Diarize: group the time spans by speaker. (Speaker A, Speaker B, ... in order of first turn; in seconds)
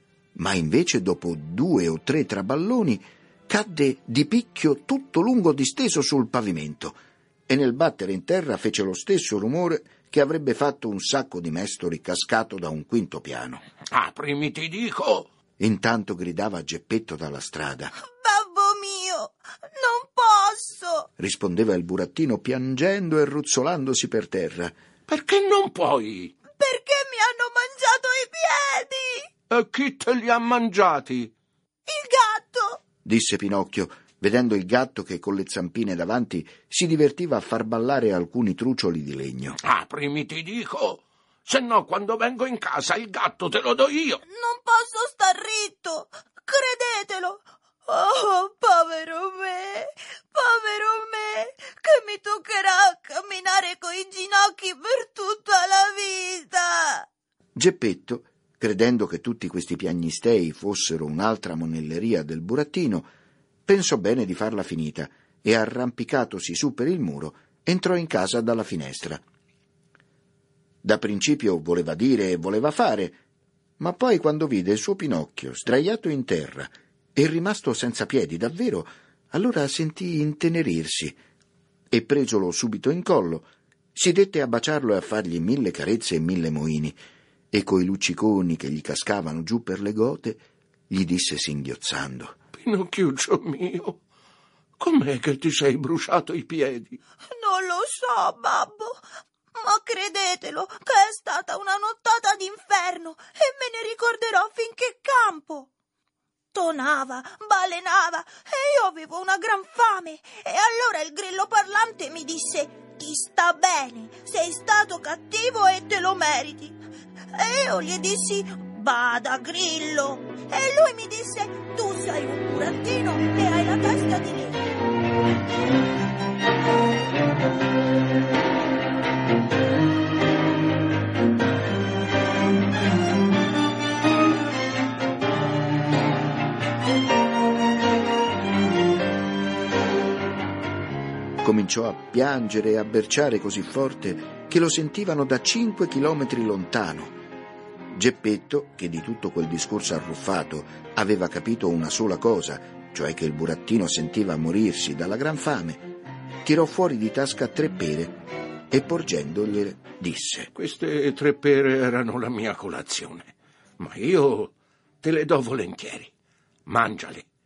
Speaker A: 0.3-13.6, 15.6-17.9, 21.2-24.8, 33.0-39.6, 57.5-63.1, 63.6-69.2, 70.8-73.2, 73.8-81.2, 81.9-87.0, 87.5-92.4, 141.4-147.2, 147.9-155.9, 156.4-160.5
Speaker B: 13.9-15.3, 25.1-26.3, 29.5-31.3, 39.6-44.2, 92.5-94.0, 94.8-97.0, 160.5-166.1, 166.7-167.2
Speaker C: 18.0-21.1, 26.5-29.3, 31.9-32.8, 44.2-57.1, 97.3-99.0, 99.5-105.7, 106.5-116.8, 117.3-124.7